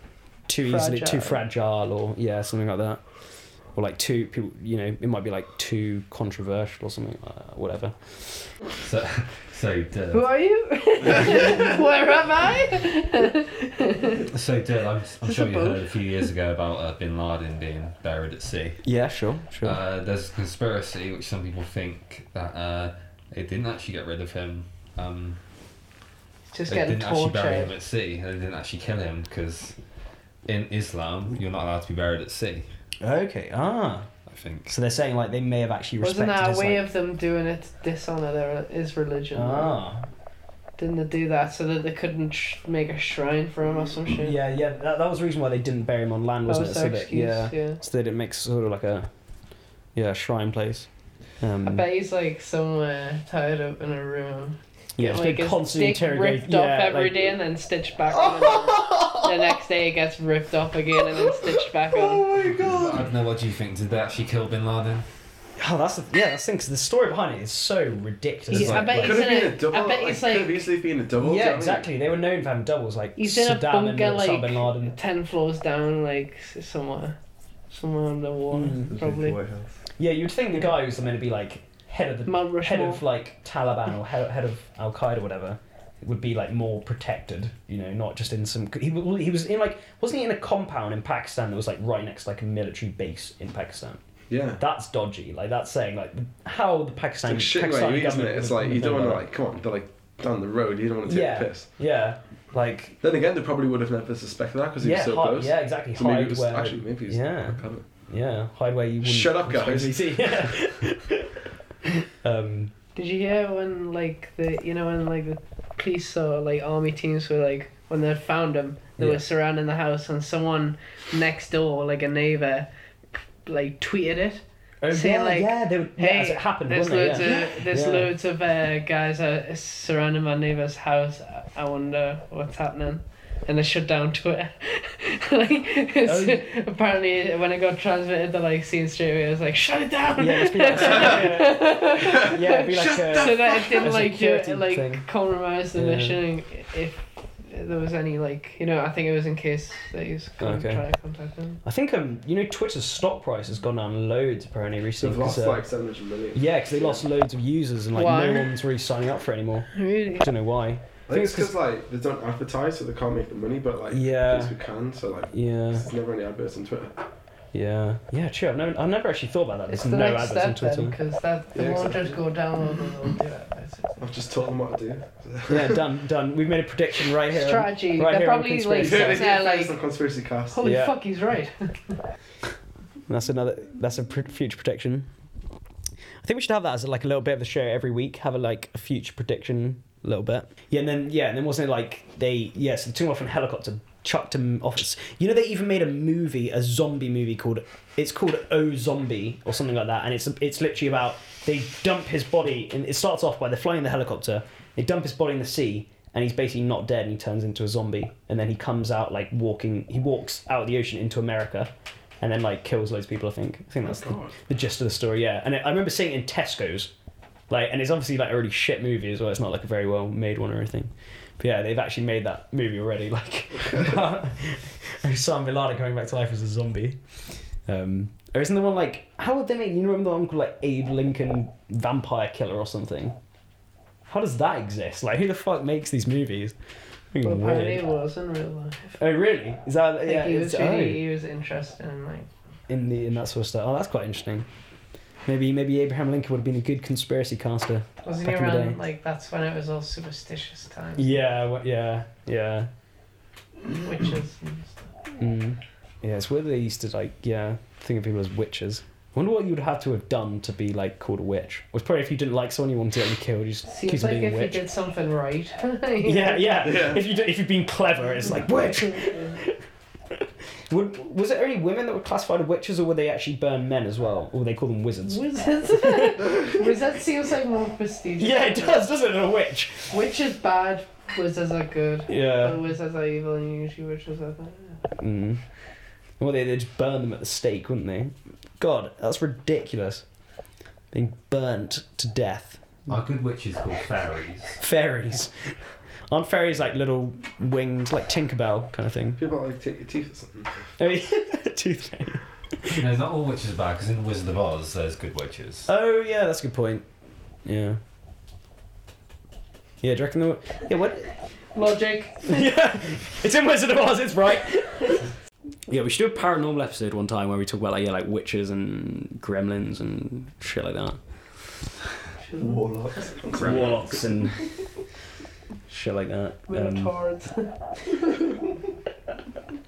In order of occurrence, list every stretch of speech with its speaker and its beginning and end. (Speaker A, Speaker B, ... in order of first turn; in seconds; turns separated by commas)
Speaker A: 0.5-3.0, Speaker B: 0.6-1.4, Speaker A: 3.7-8.5, Speaker C: 8.8-10.3, Speaker B: 10.1-14.3, Speaker C: 14.2-18.8, Speaker B: 15.2-15.9, Speaker A: 18.8-19.8, Speaker C: 19.6-25.4, Speaker B: 26.5-27.7, Speaker C: 26.7-29.8, Speaker C: 30.4-32.7, Speaker A: 33.0-34.1, Speaker C: 34.3-34.7, Speaker A: 34.7-36.9, Speaker B: 36.0-39.8, Speaker A: 39.3-40.0, Speaker B: 40.8-44.4, Speaker A: 44.2-49.1, Speaker B: 46.5-47.8, Speaker A: 49.9-51.9, Speaker B: 51.6-62.3, Speaker A: 55.0-57.3, Speaker A: 58.1-59.5, Speaker D: 61.9-63.1, Speaker C: 62.6-65.0, Speaker A: 65.6-69.4, Speaker B: 68.5-70.6, Speaker E: 68.5-71.9, Speaker A: 71.2-74.9, Speaker B: 73.2-77.2, Speaker B: 77.7-79.4, Speaker A: 78.5-78.9, Speaker D: 78.8-79.8, Speaker A: 80.0-94.0, Speaker B: 82.2-83.0, Speaker E: 94.3-94.6, Speaker A: 94.6-99.2, Speaker E: 97.2-101.7, Speaker A: 101.0-103.0, Speaker E: 103.0-107.8, Speaker A: 104.8-111.4, Speaker E: 109.0-110.5, Speaker A: 112.0-112.7, Speaker B: 113.0-122.7, Speaker A: 119.0-119.2, Speaker B: 123.4-151.6, Speaker A: 124.8-128.1, Speaker A: 136.0-136.4, Speaker A: 140.2-145.1, Speaker E: 142.7-143.9, Speaker A: 145.8-146.2, Speaker A: 150.4-150.8, Speaker A: 151.6-155.7, Speaker E: 155.0-157.0, Speaker A: 156.3-161.5, Speaker B: 157.9-158.5, Speaker B: 159.7-160.3, Speaker E: 161.1-166.9, Speaker A: 163.9-164.6, Speaker A: 165.3-165.9, Speaker A: 167.5-171.0, Speaker B: 169.7-174.0, Speaker E: 171.5-172.2, Speaker E: 174.0-175.8, Speaker A: 175.5-179.2, Speaker B: 177.3-179.8, Speaker E: 178.8-180.6, Speaker B: 180.5-182.0, Speaker A: 180.6-180.9, Speaker A: 183.1-185.1, Speaker A: 186.2-216.9, Speaker E: 213.8-214.3, Speaker A: 217.5-227.0, Speaker A: 227.7-233.2, Speaker A: 234.1-236.5, Speaker A: 237.1-237.8, Speaker B: 237.2-239.0, Speaker A: 239.0-241.0, Speaker B: 240.0-242.3, Speaker A: 242.7-244.5, Speaker A: 245.2-248.8, Speaker B: 248.0-251.3, Speaker A: 251.0-252.7, Speaker B: 253.8-254.9, Speaker A: 255.2-264.6, Speaker B: 263.7-266.7, Speaker A: 266.0-269.6, Speaker E: 266.6-267.0, Speaker B: 268.8-269.4, Speaker A: 270.7-275.2, Speaker B: 275.1-278.8, Speaker A: 275.8-276.3, Speaker A: 278.2-279.9, Speaker B: 279.9-284.8, Speaker A: 282.1-282.6, Speaker A: 285.0-285.4, Speaker A: 286.2-290.0, Speaker A: 290.9-292.6, Speaker C: 292.9-294.6, Speaker A: 294.6-299.2, Speaker E: 299.2-300.7, Speaker A: 300.8-302.8, Speaker C: 302.7-305.7, Speaker A: 305.7-306.8, Speaker A: 307.4-307.8, Speaker A: 309.8-311.1, Speaker B: 311.5-312.4, Speaker A: 312.3-315.0, Speaker A: 315.7-321.5, Speaker B: 322.2-323.2, Speaker D: 322.4-323.2, Speaker E: 323.3-323.5, Speaker C: 323.3-323.9, Speaker A: 323.3-324.5, Speaker A: 325.7-326.9, Speaker B: 326.5-327.5